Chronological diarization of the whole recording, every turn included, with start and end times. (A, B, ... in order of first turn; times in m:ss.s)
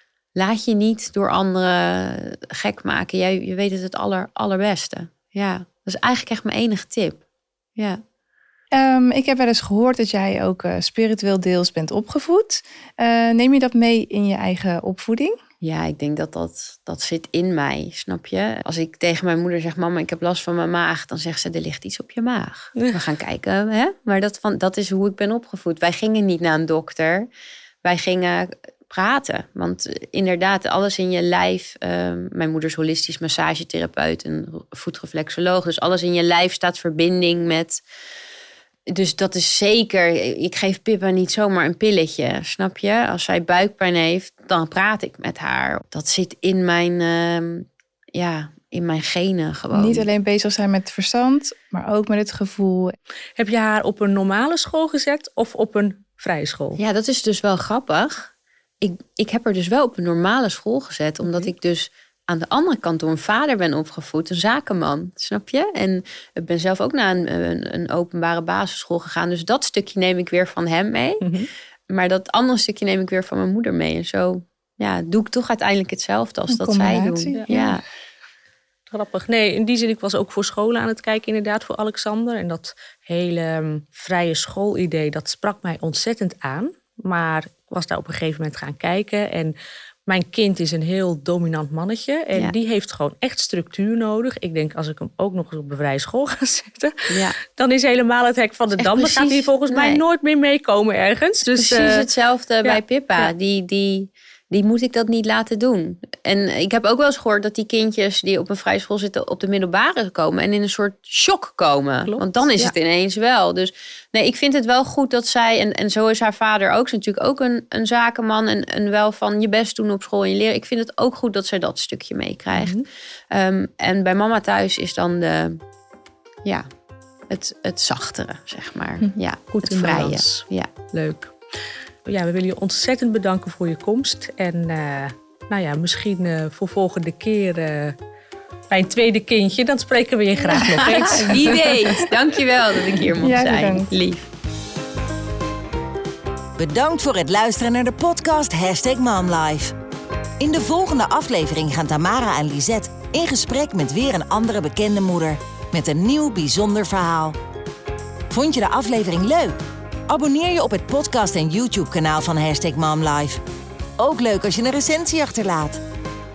0:00.4-0:07.2 A
0:07.8-0:08.0 A
0:08.7-0:15.4 B
0:15.6-0:27.3 A
0:27.8-0:37.8 A
0:38.9-0:50.1 A
0:49.7-0:53.0 B
0:53.4-0:56.8 C
0:56.8-1:11.3 A
1:01.2-1:01.5 C
1:11.2-1:11.5 C
1:11.9-1:17.8 A
1:16.5-1:17.8 B
1:18.9-1:29.5 C
1:30.1-1:42.1 C
1:37.1-1:37.4 A
1:38.8-1:40.0 A
1:41.6-2:02.8 A
1:42.6-1:43.3 C
1:52.0-1:52.7 C
2:02.5-2:02.8 C
2:03.3-2:05.6 A
2:07.3-2:10.7 A
2:09.5-2:11.3 C
2:12.0-2:18.0 C
2:18.7-2:22.1 C
2:20.6-2:24.3 A
2:23.2-2:23.9 B
2:26.6-2:29.7 D
2:30.4-2:37.4 D
2:38.3-2:39.6 D
2:40.1-2:43.4 D
2:44.0-2:45.8 D